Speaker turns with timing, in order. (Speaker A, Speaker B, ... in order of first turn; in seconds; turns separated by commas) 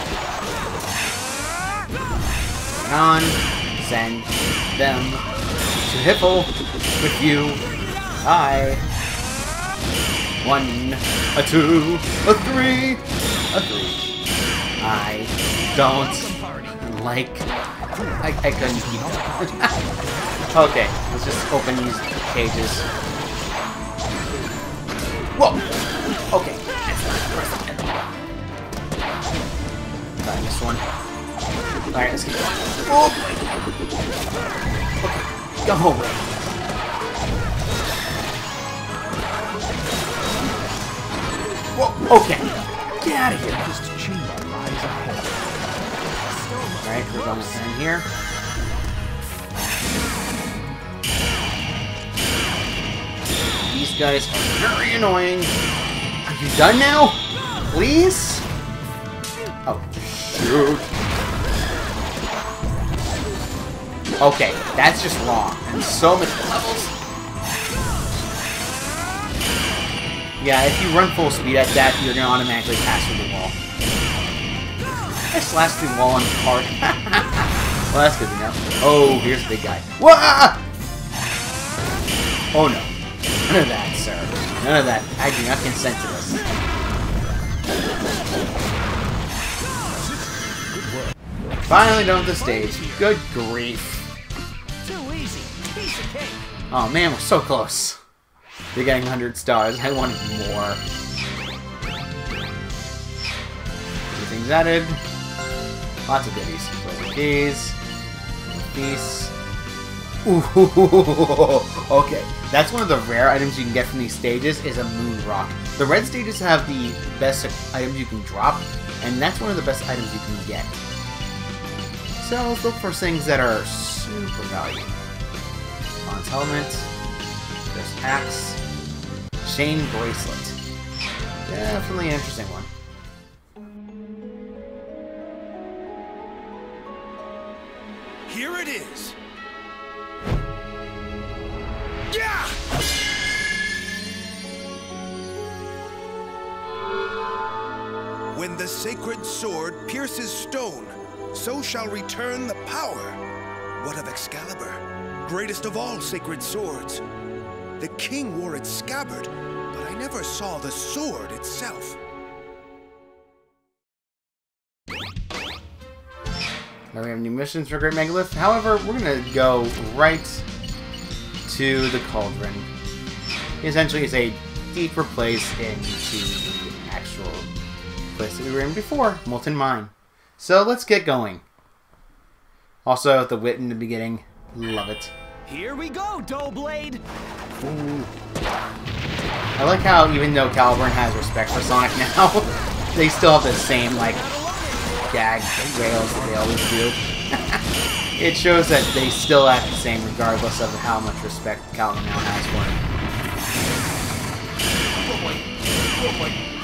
Speaker A: 2.7-5.2, Speaker A: 5.8-7.7, Speaker A: 8.2-8.8, Speaker A: 10.4-14.1, Speaker A: 14.8-17.5, Speaker B: 15.4-16.8, Speaker C: 17.9-20.4, Speaker A: 18.2-19.7, Speaker A: 20.5-22.9, Speaker A: 25.3-25.7, Speaker A: 26.3-28.1, Speaker A: 30.2-30.8, Speaker A: 31.9-33.4, Speaker A: 35.0-36.3, Speaker A: 41.8-43.6, Speaker C: 43.5-45.5, Speaker B: 46.2-47.7, Speaker A: 46.8-48.1, Speaker A: 53.7-55.5, Speaker A: 56.2-58.5, Speaker A: 59.7-60.9, Speaker A: 64.2-66.9, Speaker A: 70.4-73.6, Speaker A: 75.3-80.6, Speaker A: 82.5-82.9, Speaker A: 83.5-86.5, Speaker C: 89.9-91.2, Speaker A: 91.7-94.1, Speaker B: 92.0-93.1, Speaker B: 94.8-96.4, Speaker A: 96.7-98.0, Speaker A: 98.7-100.8, Speaker A: 104.1-105.0, Speaker A: 106.1-107.8, Speaker A: 108.4-109.3, Speaker A: 110.2-120.8, Speaker A: 122.2-125.0, Speaker A: 126.0-126.9, Speaker A: 127.7-128.6, Speaker A: 129.4-130.6, Speaker A: 131.5-132.7, Speaker D: 138.3-139.2, Speaker D: 142.1-142.6, Speaker D: 148.3-153.2, Speaker D: 153.8-157.0, Speaker D: 157.8-162.0, Speaker A: 166.9-170.4, Speaker A: 171.5-172.7, Speaker A: 173.6-177.5, Speaker A: 178.1-181.4, Speaker A: 182.8-185.1, Speaker B: 185.5-187.0, Speaker A: 187.6-188.1, Speaker A: 189.6-194.2, Speaker B: 194.0-195.3, Speaker A: 195.1-197.6, Speaker C: 195.6-196.9, Speaker A: 198.2-202.8, Speaker A: 205.0-206.4